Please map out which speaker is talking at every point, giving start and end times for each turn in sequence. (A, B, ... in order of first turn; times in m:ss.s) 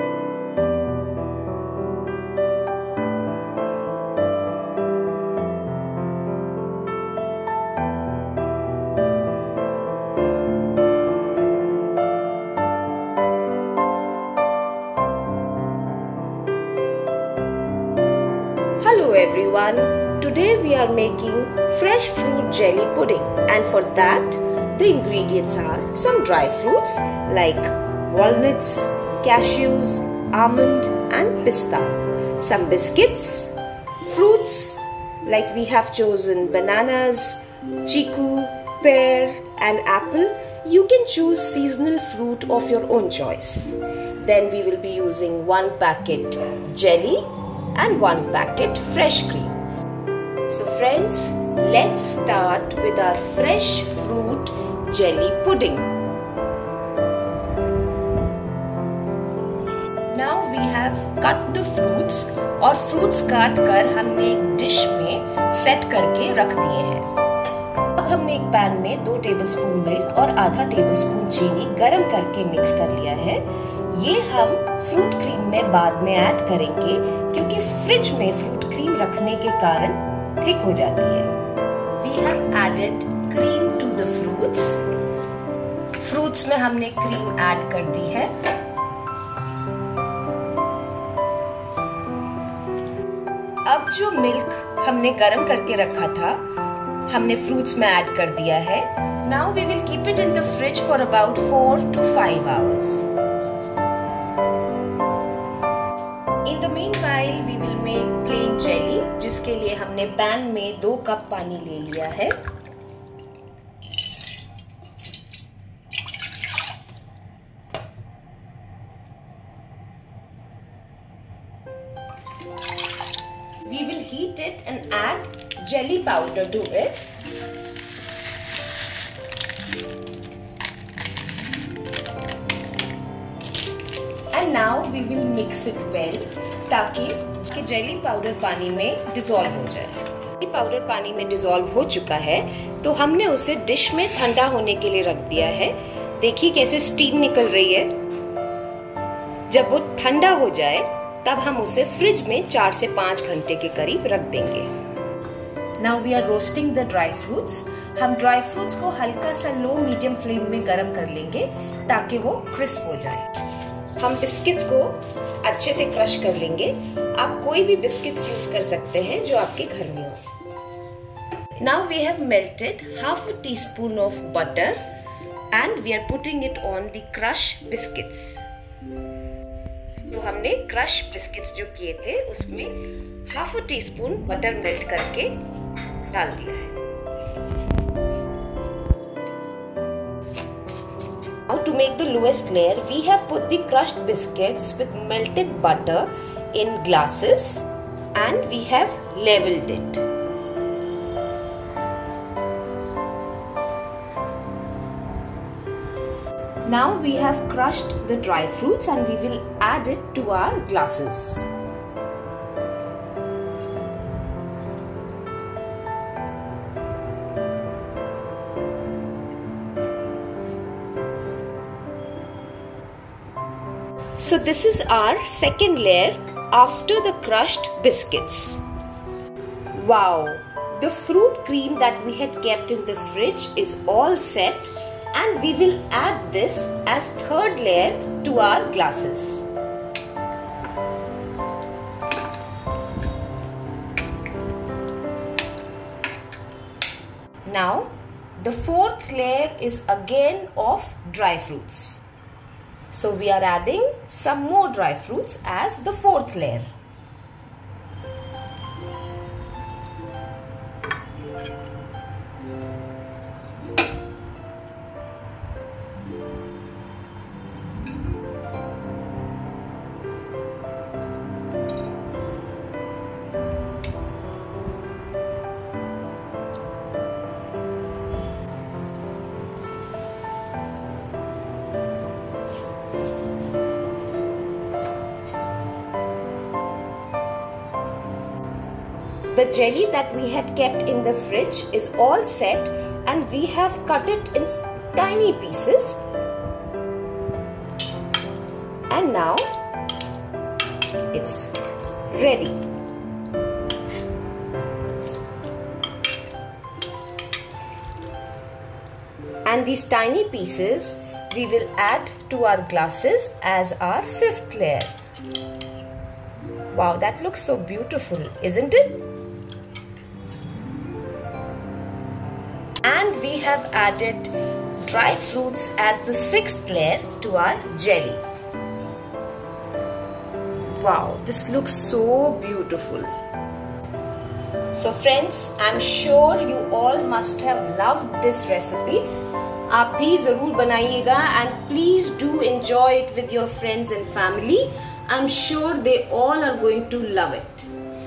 0:18.8-0:49.6 A
0:50.5-0:55.9 A
1:00.1-1:07.1 A
1:08.0-1:21.3 A
1:22.0-1:24.8 A
1:26.0-1:28.3 A
1:33.6-1:36.4 A
1:37.1-1:43.1 A
1:46.4-1:52.4 A
2:03.6-2:07.1 A
2:14.3-2:27.9 A
2:29.5-2:34.7 A
2:35.8-2:43.2 A
2:44.0-2:50.2 A
2:51.6-2:54.8 A
2:55.5-2:58.4 A
3:00.1-3:05.4 A
3:06.1-3:06.8 A
3:11.5-3:20.0 A
3:26.6-3:31.5 A
3:44.2-3:48.6 A
3:49.7-3:59.5 A
4:07.4-4:12.0 A
4:12.9-4:16.7 A
4:49.3-4:56.0 A
4:58.9-4:59.4 A
5:01.1-5:01.5 A
5:02.1-5:02.6 A
5:09.4-5:14.9 A
5:16.7-5:19.0 A
5:22.8-5:28.2 A
5:30.8-5:33.1 A
5:34.7-5:39.0 A
5:39.7-5:47.7 A